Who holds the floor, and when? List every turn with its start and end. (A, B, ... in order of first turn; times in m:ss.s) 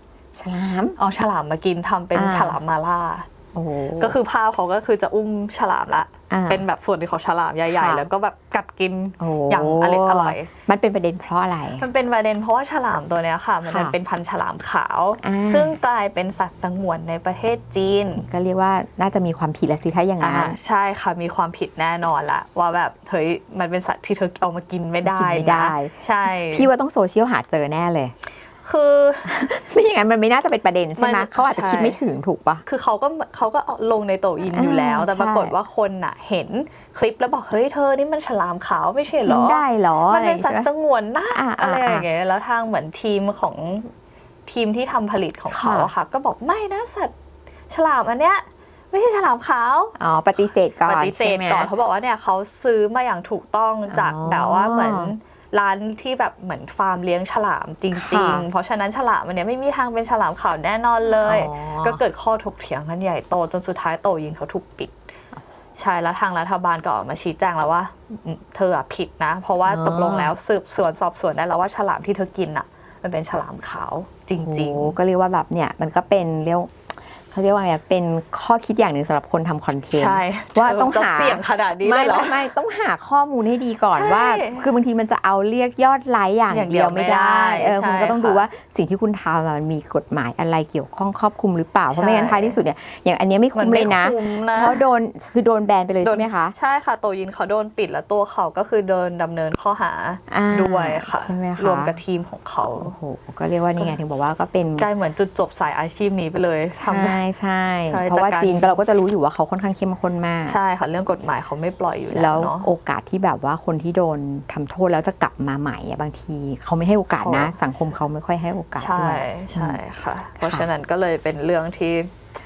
0:00.3-0:01.0 A
0:01.0-0:03.3 B
0:02.1-0:02.6 A
0:03.5-0:04.2 A
0:04.0-0:10.5 B
0:06.3-0:06.6 A
0:07.7-0:08.1 A
0:09.2-0:11.8 A
0:11.8-0:18.2 B
0:13.6-0:13.9 A
0:15.2-0:15.8 A
0:18.2-0:20.6 A
0:20.2-0:26.7 B
0:25.0-0:25.9 A
0:26.5-0:28.1 A
0:28.6-0:29.3 B
0:29.2-0:32.6 A
0:31.0-0:32.0 B
0:32.6-0:43.9 B
0:34.4-0:35.5 A
0:39.2-0:40.7 A
0:41.3-0:42.0 A
0:44.4-0:47.1 B
0:45.5-0:45.9 A
0:47.7-1:04.9 B
0:50.0-0:51.7 A
0:53.9-0:55.1 A
0:57.9-0:58.4 A
1:01.1-1:02.0 A
1:05.8-1:15.0 B
1:09.6-1:10.3 A
1:14.4-1:16.7 A
1:17.3-1:36.5 A
1:19.9-1:22.5 B
1:23.9-1:24.7 B
1:26.5-1:28.5 B
1:31.9-1:32.6 B
1:33.5-1:34.8 B
1:36.0-1:43.0 B
1:40.3-1:42.0 A
1:42.7-1:44.9 A
1:44.8-1:47.2 B
1:46.8-1:50.6 A
1:47.8-1:48.8 B
1:50.4-1:52.7 B
1:52.1-1:59.8 A
1:57.1-1:57.6 B
1:58.8-2:02.1 B
2:00.4-2:00.7 A